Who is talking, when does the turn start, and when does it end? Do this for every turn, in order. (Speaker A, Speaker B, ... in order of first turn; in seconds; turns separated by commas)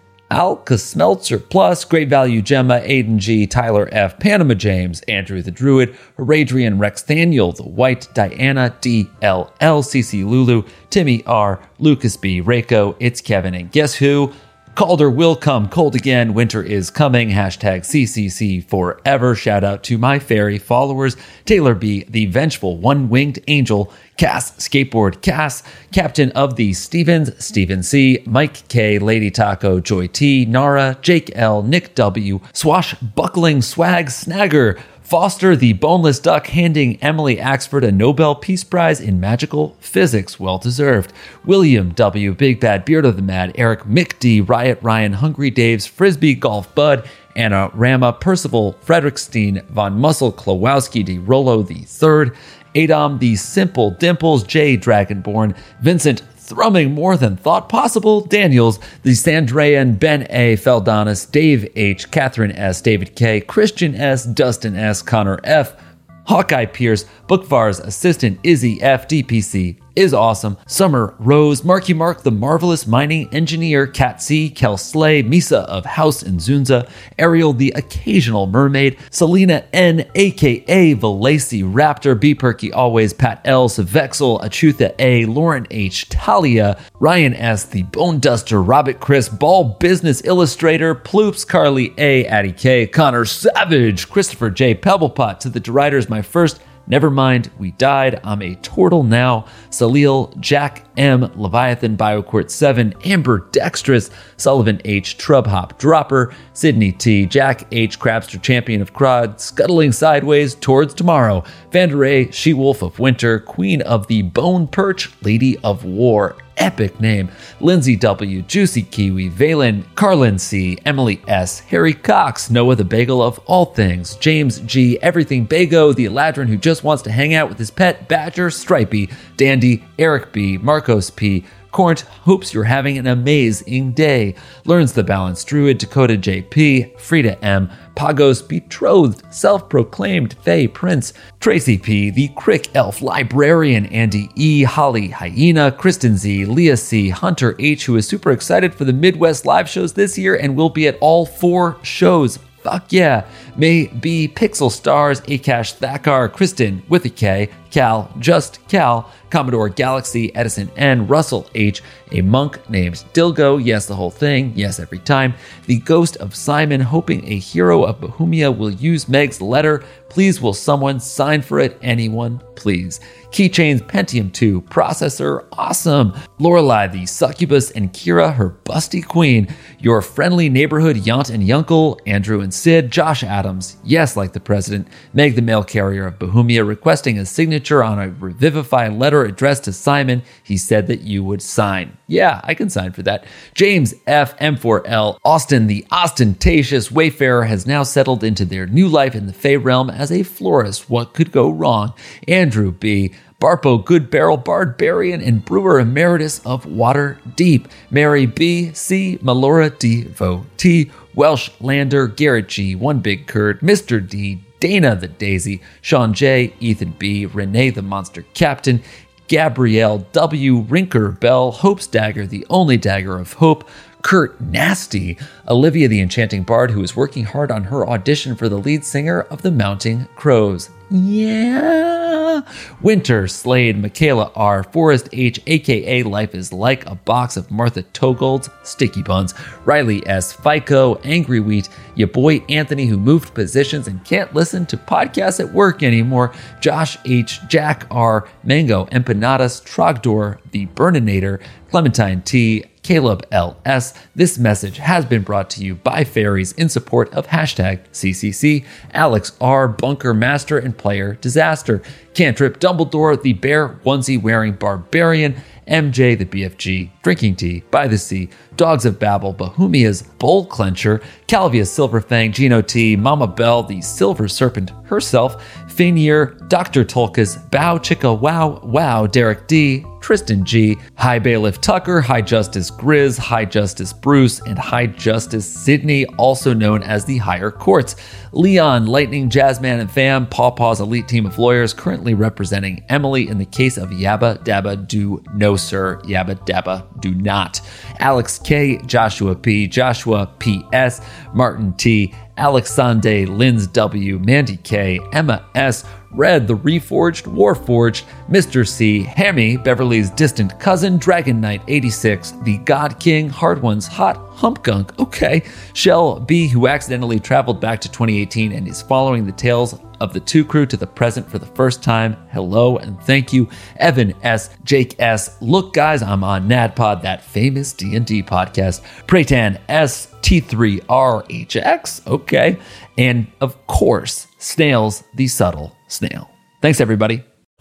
Speaker A: 0.3-337.2